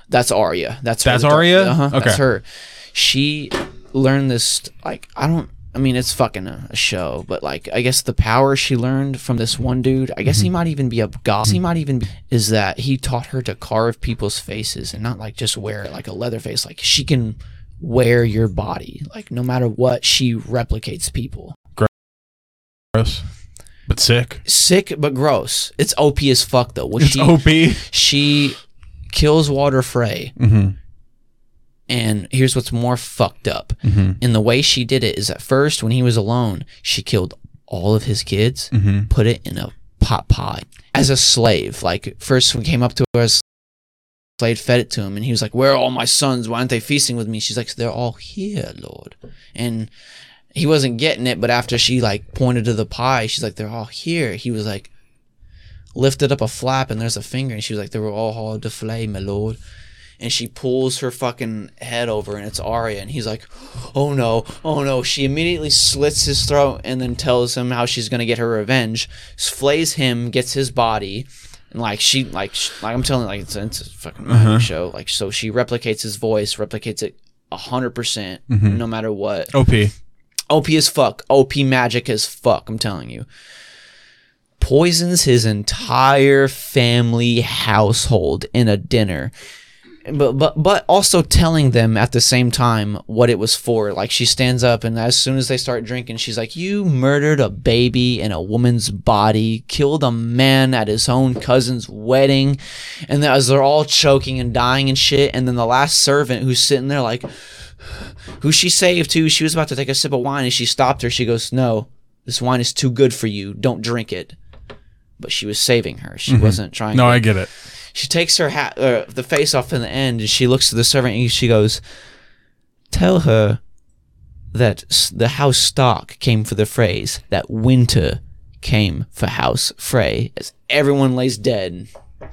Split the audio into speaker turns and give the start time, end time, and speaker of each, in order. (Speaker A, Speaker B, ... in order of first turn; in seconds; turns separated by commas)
Speaker A: 0.1-21.6, Speaker B: 1.0-2.2, Speaker B: 22.9-23.2, Speaker B: 23.9-24.4, Speaker A: 24.4-28.6, Speaker B: 27.0-27.9, Speaker A: 29.1-30.3, Speaker B: 30.4-30.8, Speaker A: 31.9-43.4, Speaker B: 33.8-34.2, Speaker B: 38.7-39.1, Speaker A: 44.4-49.9, Speaker A: 50.5-54.9, Speaker A: 55.9-59.6, Speaker A: 60.2-79.5, Speaker B: 74.3-74.7, Speaker B: 78.5-78.8, Speaker B: 79.5-79.9, Speaker A: 80.5-83.2, Speaker A: 84.6-89.3, Speaker A: 90.0-114.3, Speaker A: 115.2-117.3, Speaker B: 116.3-117.5, Speaker A: 117.9-121.8, Speaker A: 122.9-123.6, Speaker A: 124.5-131.9